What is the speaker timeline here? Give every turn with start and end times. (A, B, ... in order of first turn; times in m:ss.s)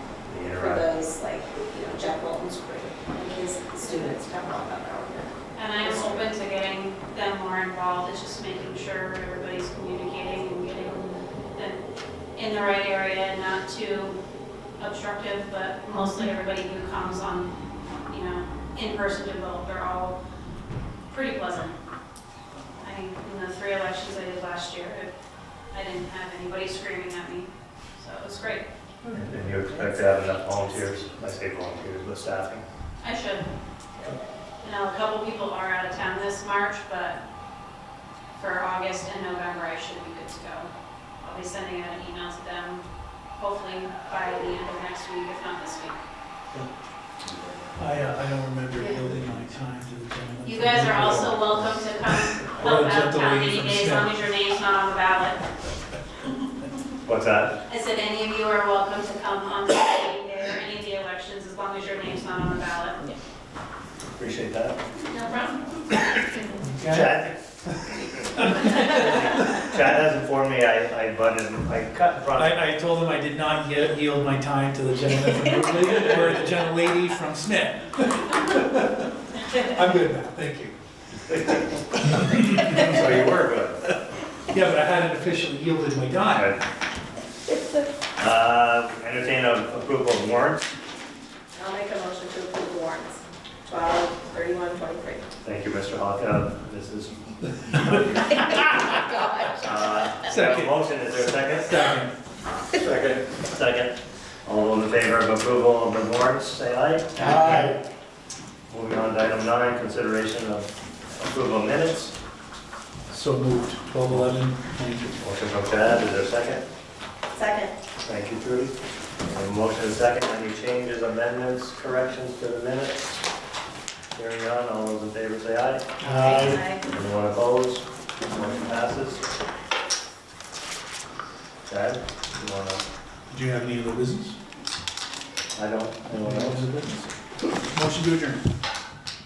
0:00.2-0:00.8 A
0:00.5-0:06.2 B
0:05.6-0:11.8 C
0:12.4-0:14.2 C
0:14.8-0:17.5 C
0:18.1-0:20.2 C
0:21.1-0:21.8 C
0:22.8-0:25.1 C
0:25.7-0:28.6 C
0:29.0-0:32.6 A
0:33.0-0:33.5 C
0:34.6-0:37.2 C
0:38.3-0:40.7 C
0:41.2-0:46.0 C
0:47.8-0:54.1 D
0:50.4-0:55.5 C
0:57.0-0:57.6 A
0:57.7-1:03.0 C
1:04.2-1:04.8 A
1:05.1-1:05.6 C
1:06.6-1:07.1 D
1:06.8-1:12.6 A
1:08.6-1:08.9 D
1:12.4-1:20.8 D
1:21.3-1:23.0 D
1:21.3-1:21.6 A
1:22.6-1:23.9 A
1:24.5-1:26.5 D
1:26.3-1:26.6 A
1:27.5-1:27.8 B
1:28.2-1:30.7 A
1:31.6-1:35.3 B
1:35.4-1:38.4 A
1:38.1-1:39.7 B
1:39.6-1:41.8 A
1:40.2-1:42.1 D
1:42.7-1:47.8 A
1:47.2-1:47.7 D
1:48.7-1:52.1 A
1:53.1-1:55.2 D
1:55.2-1:56.6 A
1:57.3-1:57.7 B
1:58.0-1:58.7 A
1:59.2-2:03.2 A
2:04.1-2:09.2 A
2:06.0-2:06.8 C
2:11.7-2:12.8 A
2:13.3-2:14.4 D
2:15.5-2:17.0 A
2:16.2-2:16.9 D
2:17.6-2:18.4 D